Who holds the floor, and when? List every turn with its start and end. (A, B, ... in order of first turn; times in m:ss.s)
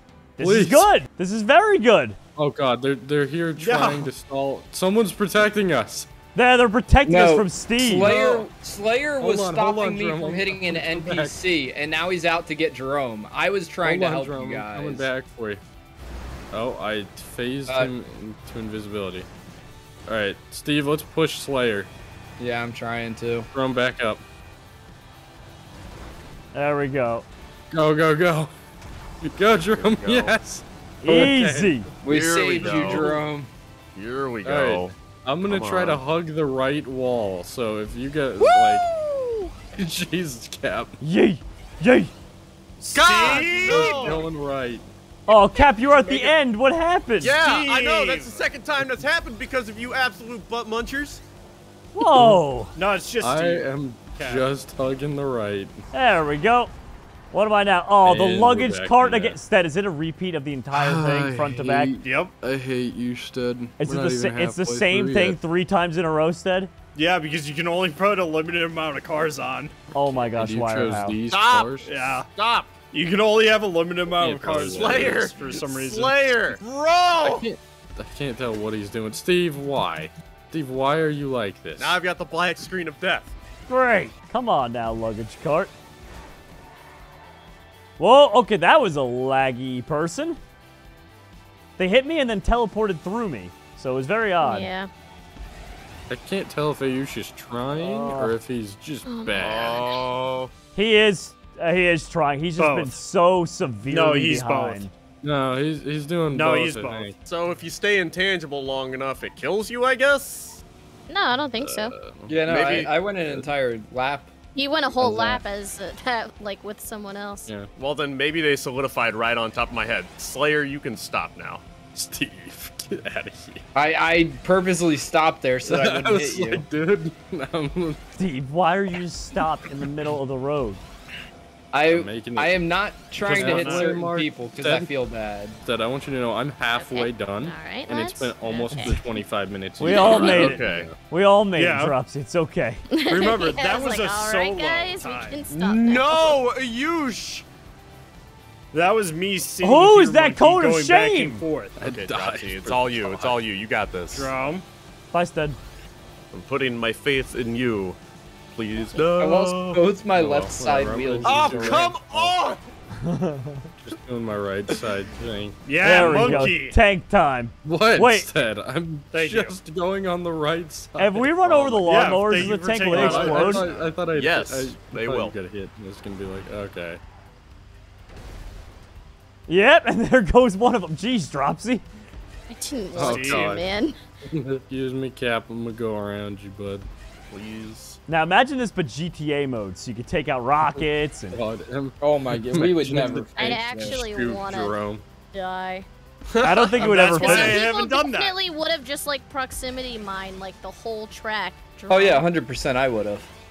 0:00.4-0:02.2 A
0:00.4-0:00.9 B
0:02.4-0:06.1 B
0:03.6-0:04.1 C
0:06.4-0:08.1 A
0:07.0-0:15.1 D
0:08.0-0:08.5 B
0:09.2-0:11.4 B
0:13.8-0:15.6 B
0:16.5-0:19.3 B
0:20.1-0:21.9 B
0:22.4-0:23.5 D
0:23.5-0:24.2 B
0:26.5-0:27.3 A
0:27.7-0:28.5 B
0:29.2-0:31.8 B
0:29.7-0:30.4 E
0:31.0-0:31.9 A
0:32.0-0:33.5 D
0:32.1-0:33.2 E
0:32.6-0:33.2 B
0:34.0-0:34.9 E
0:34.4-0:38.9 B
0:35.5-0:36.0 E
0:38.4-0:39.1 C
0:39.7-0:41.0 B
0:41.0-0:42.1 A
0:42.8-0:44.2 C
0:42.9-0:44.2 E
0:43.2-0:44.8 B
0:45.3-0:47.4 A
0:46.0-0:46.3 E
0:47.2-0:51.2 E
0:47.3-0:48.4 C
0:52.0-0:52.7 A
0:52.0-0:52.4 B
0:52.8-0:54.4 C
0:53.2-0:55.8 B
0:55.9-0:56.7 A
0:57.3-1:01.9 A
0:58.0-0:59.4 B
1:00.7-1:05.4 B
1:02.0-1:02.3 C
1:03.8-1:06.7 A
1:07.0-1:09.8 C
1:09.9-1:11.2 A
1:10.3-1:11.9 B
1:11.3-1:12.8 E
1:11.8-1:12.3 C
1:12.9-1:16.4 C
1:14.2-1:15.3 B
1:14.6-1:17.5 E
1:17.2-1:22.0 B
1:21.8-1:23.3 E
1:23.7-1:25.7 A
1:28.0-1:30.4 A
1:31.8-1:34.7 A
1:34.4-1:34.9 F
1:36.1-1:39.9 B
1:37.8-1:38.4 A
1:39.1-1:39.8 F
1:39.4-1:40.5 E
1:40.8-1:44.9 A
1:42.6-1:43.0 C
1:43.9-1:44.9 C
1:45.2-1:47.2 B
1:46.3-1:47.1 C
1:47.2-1:50.6 E
1:51.1-1:52.0 F
1:51.6-1:52.4 B
1:52.3-1:54.3 D
1:52.5-1:52.9 E
1:54.6-1:57.5 F
1:55.0-1:55.4 D
1:57.8-2:01.6 E
2:02.0-2:03.6 B
2:03.8-2:06.7 D
2:05.7-2:08.0 B
2:08.2-2:10.8 A
2:11.7-2:15.6 D
2:11.9-2:12.6 B
2:13.2-2:14.9 B
2:13.3-2:14.0 C
2:15.6-2:21.0 B
2:16.8-2:19.0 F
2:18.7-2:19.0 A
2:19.8-2:22.8 A
2:19.9-2:20.6 F
2:19.9-2:20.9 E
2:21.6-2:21.9 C
2:22.9-2:26.4 F
2:23.1-2:25.4 C
2:25.5-2:27.5 E
2:28.7-2:31.8 C
2:29.6-2:31.4 A
2:31.8-2:33.4 B
2:31.8-2:34.5 E
2:34.1-2:34.6 C
2:35.1-2:35.6 A
2:36.3-2:38.0 E
2:38.5-2:39.9 E
2:39.2-2:41.9 D
2:40.1-2:42.3 B
2:41.2-2:42.6 E
2:43.0-2:43.7 A
2:43.8-2:46.6 B
2:45.6-2:46.8 C
2:45.8-2:48.3 A
2:47.6-2:57.0 B
2:49.1-2:49.6 C
2:51.0-2:53.7 A
2:51.8-2:53.7 C
2:53.0-2:55.4 E
2:59.5-3:01.8 A
3:02.5-3:04.0 F
3:02.9-3:03.6 B
3:03.0-3:03.6 C
3:04.3-3:06.9 B
3:07.3-3:08.0 E
3:08.1-3:11.4 A
3:11.3-3:15.0 B
3:12.0-3:14.0 D
3:13.4-3:14.8 F
3:15.3-3:15.9 F
3:16.3-3:17.6 E
3:16.4-3:17.6 A
3:16.8-3:18.4 C
3:17.2-3:22.3 F
3:21.9-3:23.3 D